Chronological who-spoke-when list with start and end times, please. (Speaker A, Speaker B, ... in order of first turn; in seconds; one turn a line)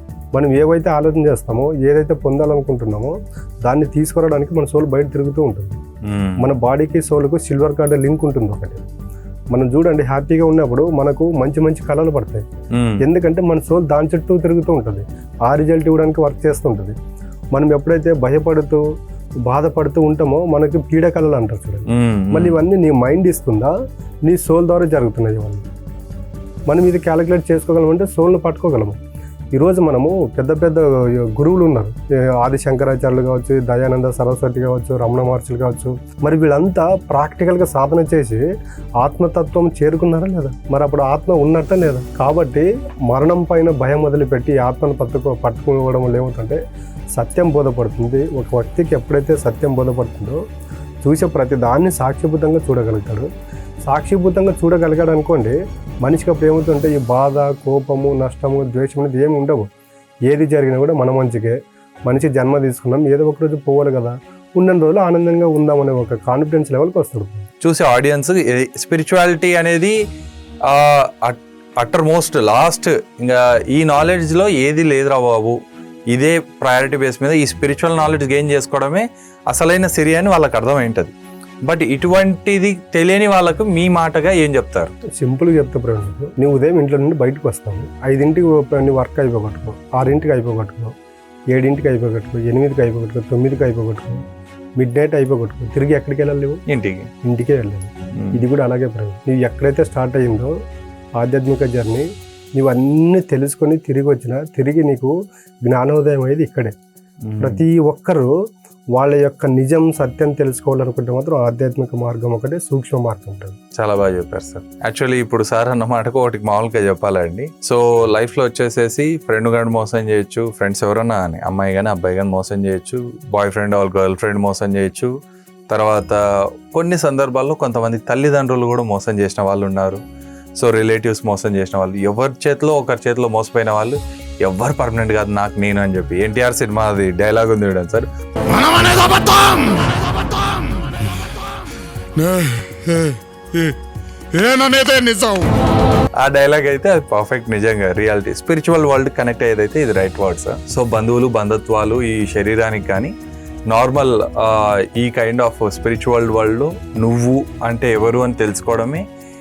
Speaker A: 0.3-5.8
Speaker B: 6.0-6.5
Speaker A: 6.4-8.8
Speaker A: 9.5-12.5
Speaker B: 12.7-13.0
Speaker A: 13.0-17.0
Speaker A: 17.5-18.8
Speaker A: 19.5-23.8
Speaker B: 21.9-22.6
Speaker A: 24.3-25.7
Speaker A: 26.7-29.0
Speaker A: 29.5-38.4
Speaker A: 39.0-46.6
Speaker A: 47.1-50.4
Speaker A: 51.0-53.3
Speaker A: 53.9-59.7
Speaker A: 60.3-67.5
Speaker B: 67.6-70.0
Speaker B: 70.7-75.6
Speaker B: 76.1-84.9
Speaker A: 85.2-91.0
Speaker A: 91.5-94.2
Speaker A: 94.8-96.6
Speaker B: 96.7-97.1
Speaker A: 97.2-100.5
Speaker A: 101.2-106.7
Speaker B: 107.3-107.6
Speaker A: 107.4-108.3
Speaker A: 109.0-113.6
Speaker B: 113.8-125.1
Speaker B: 125.7-130.0
Speaker B: 130.6-138.1
Speaker C: 138.5-140.6
Speaker C: 142.2-143.8
Speaker C: 144.3-145.5
Speaker B: 146.2-153.2
Speaker B: 153.7-159.1